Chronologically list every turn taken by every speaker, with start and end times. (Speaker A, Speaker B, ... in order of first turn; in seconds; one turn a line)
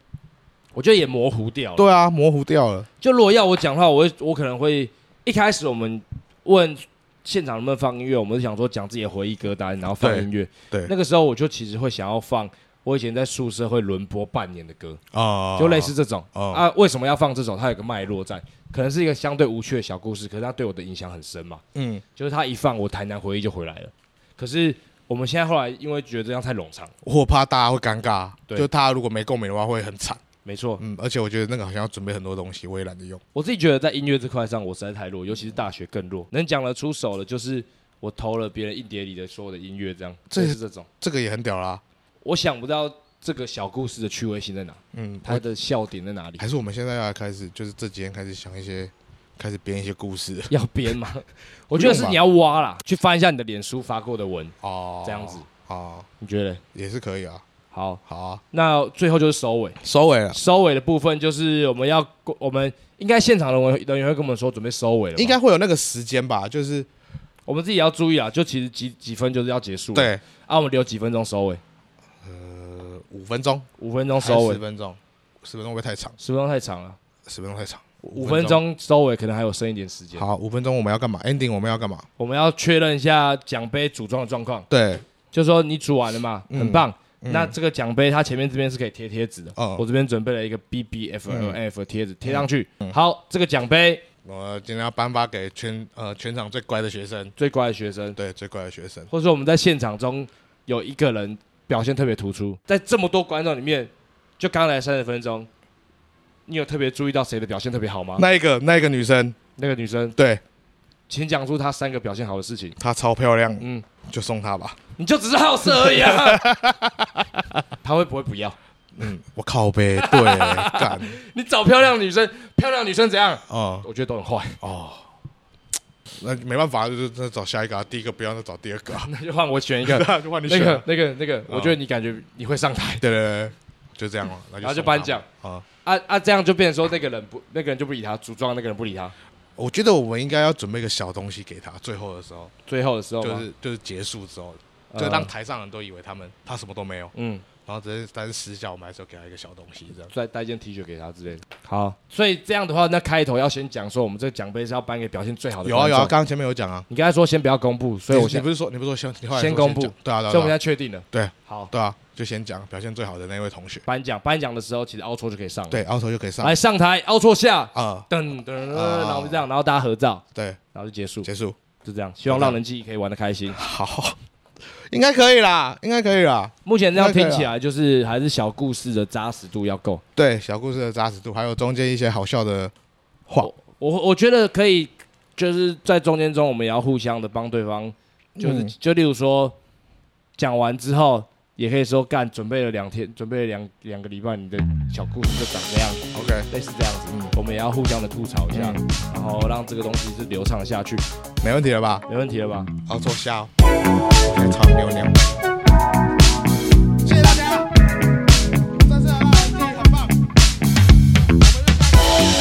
Speaker A: 0.8-1.9
Speaker B: 1.8-2.9
Speaker A: 3.0-15.0
Speaker B: 10.0-10.9
Speaker B: 15.1-16.6
Speaker A: 15.6-21.6
Speaker B: 21.8-22.0
Speaker A: 22.2-26.9
Speaker B: 27.0-30.2
Speaker A: 30.4-30.8
Speaker B: 30.8-33.2
Speaker A: 33.3-40.9
Speaker B: 40.3-41.8
Speaker A: 42.2-46.4
Speaker B: 44.9-45.4
Speaker B: 46.4-50.5
Speaker A: 50.5-55.5
Speaker B: 51.7-52.2
Speaker B: 54.6-56.1
Speaker A: 56.2-56.6
Speaker B: 56.7-57.4
Speaker A: 57.7-58.0
Speaker B: 58.1-58.4
Speaker A: 58.5-59.8
Speaker B: 59.8-60.4
Speaker A: 60.3-65.4
Speaker B: 65.2-66.9
Speaker A: 67.5-71.6
Speaker B: 70.0-70.2
Speaker B: 72.2-76.2
Speaker A: 73.8-74.6
Speaker A: 76.2-77.0
Speaker B: 77.3-78.6
Speaker A: 78.0-80.2
Speaker B: 80.2-82.1
Speaker A: 82.2-84.7
Speaker B: 84.7-85.0
Speaker A: 85.3-94.0
Speaker B: 86.5-87.5
Speaker B: 89.6-89.8
Speaker B: 91.3-91.6
Speaker B: 92.2-93.0
Speaker B: 94.2-97.3
Speaker A: 97.4-98.2
Speaker B: 98.2-99.1
Speaker A: 99.1-105.5
Speaker A: 106.5-108.2
Speaker B: 108.2-109.4
Speaker A: 109.6-110.2
Speaker B: 110.2-110.4
Speaker A: 111.1-112.8
Speaker B: 112.8-114.8
Speaker A: 113.6-113.9
Speaker A: 115.0-116.5
Speaker B: 115.6-117.5
Speaker A: 117.8-118.6
Speaker B: 119.0-121.2
Speaker A: 120.0-124.6
Speaker B: 123.5-123.9
Speaker B: 124.6-125.1
Speaker B: 126.2-129.1
Speaker A: 129.0-133.0
Speaker B: 129.8-130.8
Speaker B: 131.5-131.8
Speaker B: 133.0-135.7
Speaker A: 134.6-135.3
Speaker A: 135.8-139.1
Speaker B: 139.6-142.5
Speaker A: 142.7-143.5
Speaker B: 143.2-147.1
Speaker A: 144.9-145.3
Speaker A: 147.1-147.4
Speaker B: 147.7-150.1
Speaker A: 150.1-156.1
Speaker B: 155.6-156.9
Speaker A: 156.9-158.4
Speaker B: 158.1-160.6
Speaker A: 159.3-161.7
Speaker B: 161.1-163.8
Speaker A: 163.8-165.8
Speaker B: 165.7-166.6
Speaker A: 166.4-170.2
Speaker B: 167.8-168.1
Speaker B: 168.7-169.4
Speaker A: 170.7-171.3
Speaker B: 171.2-171.6
Speaker A: 171.8-173.6
Speaker B: 172.3-172.6
Speaker B: 173.5-174.2
Speaker B: 174.9-177.5
Speaker A: 176.7-180.0
Speaker B: 180.2-182.7
Speaker A: 183.4-189.6
Speaker B: 188.4-188.7
Speaker A: 190.4-201.0
Speaker B: 196.1-196.5
Speaker B: 197.1-197.3
Speaker B: 198.5-198.8
Speaker B: 201.4-202.1
Speaker A: 202.1-202.7
Speaker B: 202.9-203.5
Speaker B: 204.2-205.2
Speaker B: 207.0-207.7
Speaker B: 208.7-210.2
Speaker B: 211.4-212.1